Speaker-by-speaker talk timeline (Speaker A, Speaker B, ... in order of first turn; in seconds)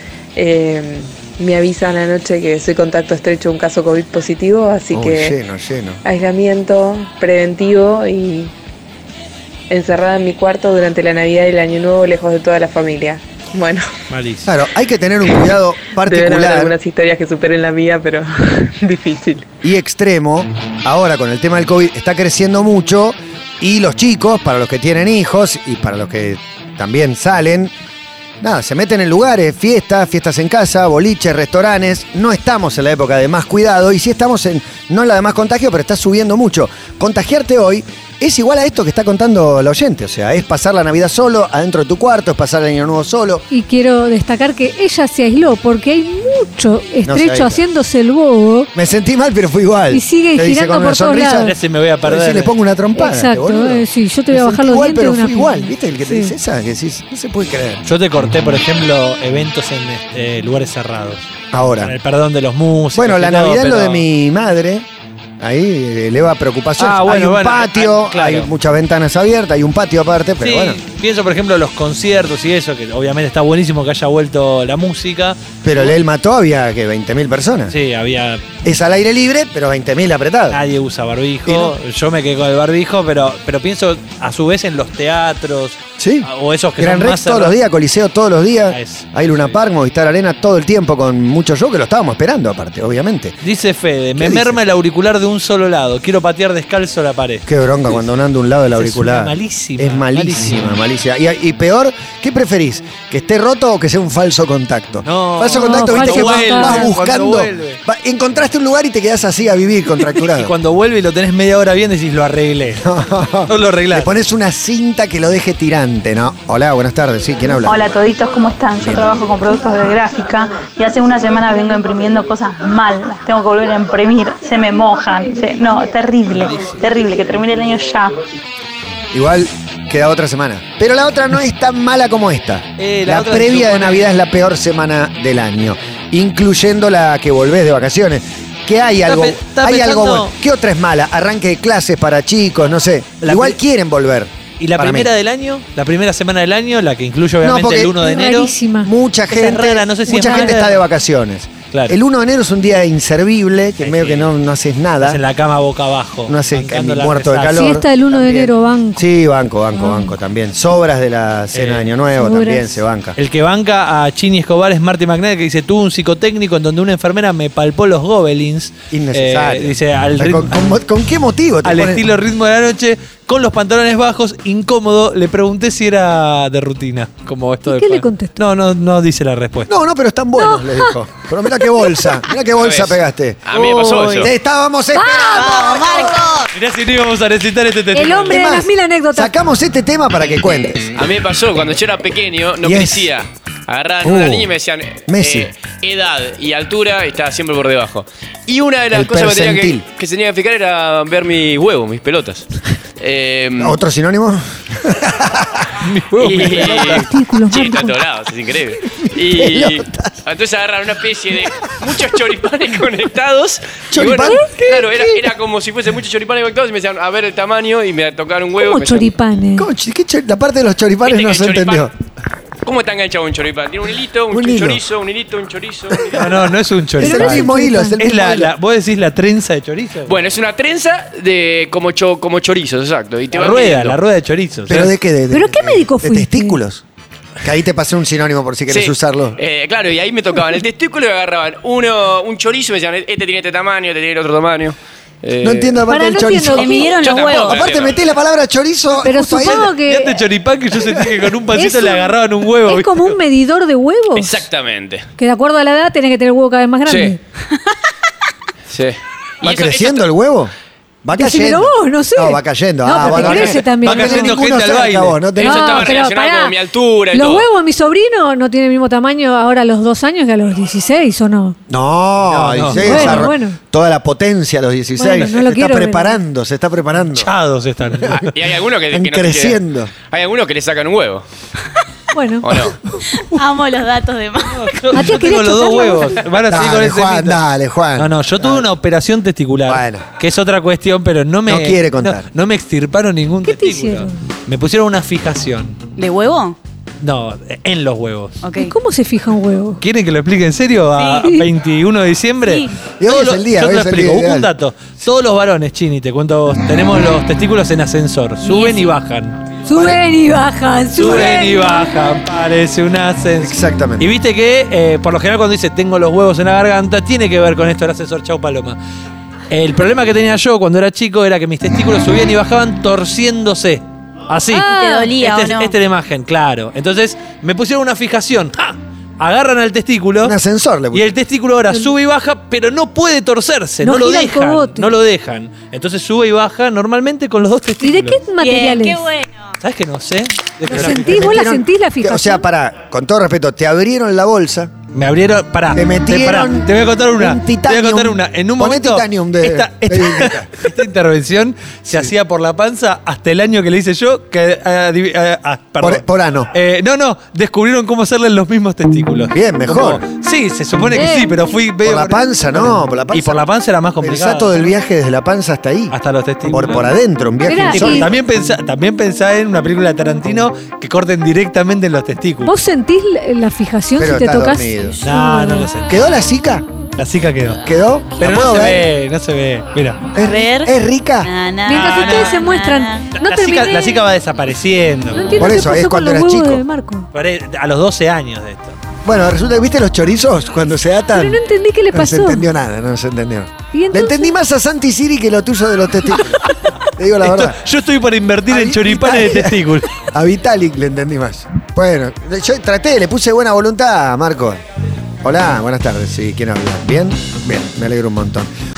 Speaker A: 0.4-5.3, 6.0-8.5, 9.7-13.8, 16.0-19.4
Speaker B: 4.9-6.0, 14.5-16.7, 19.6-27.7, 28.4-43.5, 47.1-47.6, 48.8-51.5, 52.0-57.8, 61.5-62.0, 62.9-64.8, 65.4-70.8, 75.6-77.7, 78.6-80.6, 81.5-81.7, 86.0-93.4, 94.2-94.6, 97.5-110.5, 112.8-118.0, 118.8-119.2, 129.1-145.1, 147.4-148.0, 148.8-155.2, 156.3-163.2, 168.9-172.1, 179.7-183.5, 184.0-186.4, 188.3-190.9, 192.6-193.1, 194.0-194.5, 195.1-195.5, 198.9-199.8, 203.6-205.7, 208.5-210.2, 213.9-215.3, 219.6-221.9, 224.3-224.8, 225.9-226.5, 227.0-228.5, 234.7-236.8, 237.4-239.4, 245.4-246.9, 247.4-249.7, 250.8-251.3, 259.4-260.5, 261.0-266.0, 271.7-277.3, 277.9-278.2, 278.9-279.9, 286.5-288.7, 289.7-290.1, 291.5-292.3, 303.0-304.5, 313.4-314.1, 330.2-331.1, 340.7-344.7, 345.7-350.6, 351.9-352.1, 355.8-356.5, 359.3-360.1, 361.8-363.4, 364.0-365.9, 366.5-368.1, 374.0-375.0, 375.9-376.7, 377.6-378.9, 380.1-381.3, 385.4-386.6, 389.1-391.4, 391.9-396.4, 396.9-397.6, 398.5-404.6, 405.2-408.5
Speaker C: 14.1-14.5, 51.4-52.5, 57.8-61.3, 61.8-64.1, 66.8-68.5, 70.4-76.0, 77.7-78.4, 80.5-87.5, 88.7-89.6, 93.4-98.0, 98.7-100.7, 105.0-107.8, 110.1-112.8, 113.5-114.2, 132.8-134.1, 139.1-140.3, 143.2-143.6, 144.6-148.5, 149.3-150.8, 151.7-152.0, 153.8-154.3, 155.0-157.7, 161.5-161.9, 163.2-170.7, 171.6-179.7, 183.5-184.3, 186.5-188.4, 205.8-207.1, 226.1-230.2, 233.3-234.9, 249.4-253.2, 263.1-265.2, 272.2-273.3, 277.0-278.3, 284.5-287.4, 288.0-295.8, 297.0-298.4, 299.8-309.4, 310.9-318.8, 319.5-324.7, 325.2-330.4, 330.9-338.2, 339.6-341.5, 344.9-364.7, 365.9-366.9, 367.7-372.5, 375.0-376.0, 377.0-377.6, 378.2-380.1, 381.7-382.4, 383.1-385.5, 387.1-388.8, 397.2-399.9
Speaker D: 43.5-48.7, 49.9-51.5, 53.0-56.3, 105.5-106.9, 148.0-148.9, 150.1-150.6, 157.5-159.1, 159.7-160.1, 162.2-162.7, 177.6-178.4, 180.4-180.9, 181.8-182.1, 184.9-185.7, 187.9-189.3, 206.4-208.1, 214.2-214.7, 218.6-219.7, 227.0-228.0, 235.3-236.6, 245.9-247.5, 249.0-250.2, 251.5-254.4, 255.2-257.2, 261.1-264.5, 265.4-271.6, 272.7-273.6, 275.0-276.2, 282.1-282.5, 284.9-286.2, 293.4-294.2, 298.6-299.8, 309.6-311.9, 324.5-325.1, 333.8-334.9, 337.8-339.0, 340.7-342.4, 360.9-361.4, 367.4-368.1, 372.4-375.7, 381.6-384.1, 385.1-387.1, 391.1-392.5, 393.7-394.4
Speaker E: 117.6-128.2
Speaker F: 182.5-184.3, 191.0-202.5, 203.0-203.8, 206.2-219.1, 221.0-221.9, 222.7-226.1, 230.1-234.0, 238.7-245.9, 246.6-248.0, 254.2-255.0, 256.9-257.1, 258.7-260.1, 265.4-267.5, 278.1-281.2, 282.4-282.8
Speaker G: 185.2-186.5, 246.5-247.7, 283.2-284.8, 296.0-296.6, 298.4-298.8, 301.0-301.3, 302.5-302.7, 308.4-308.9, 324.6-325.7, 338.4-339.5, 380.2-383.1